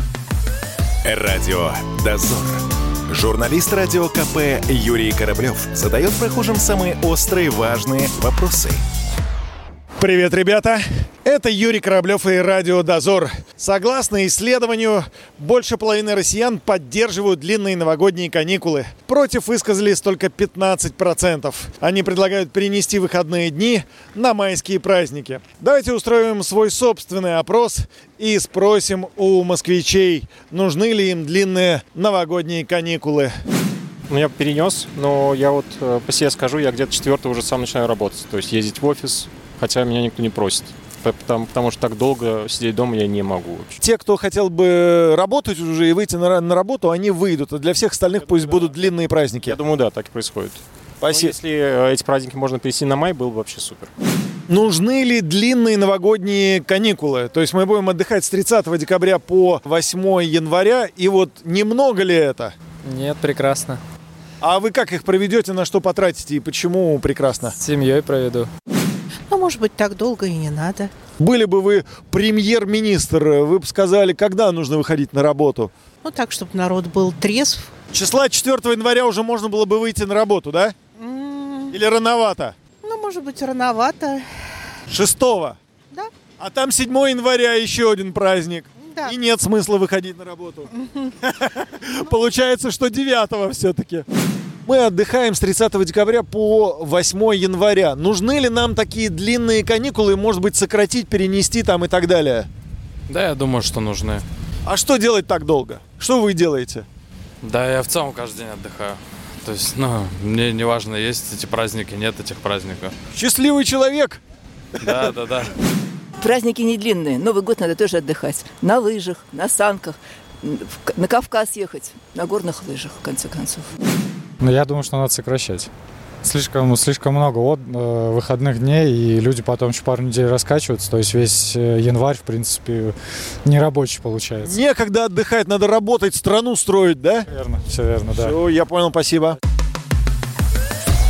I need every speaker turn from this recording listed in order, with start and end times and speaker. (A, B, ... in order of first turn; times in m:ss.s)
0:01.0-0:08.8 A
0:10.0-0:33.3 B
0:34.1-0:43.8 C
0:43.8-0:49.6 B
0:48.2-0:48.8 C
0:49.4-0:53.9 C
0:51.0-0:51.4 B
0:54.5-1:02.6 B
1:02.8-1:03.8 D
1:04.4-1:07.6 B
1:07.6-1:08.5 D
1:09.3-1:10.9 E
1:11.2-1:15.7 B
1:16.0-1:17.7 E
1:17.9-1:20.7 B
1:21.0-1:21.7 E
1:21.7-1:22.6 B
1:22.8-1:24.3 E
1:24.9-1:25.6 B
1:26.4-1:30.7 B
1:28.8-1:29.1 E
1:31.2-1:34.0 B
1:34.6-1:42.5 B
1:43.1-1:44.2 F
1:44.6-1:46.9 B
1:47.4-1:52.9 F
1:53.1-1:54.2 B
1:54.8-1:55.6 F
1:56.2-2:03.7 G
2:04.4-2:05.7 H
2:06.2-2:14.6 H
2:14.4-2:17.3 B
2:17.3-2:18.4 H
2:18.1-2:19.4 B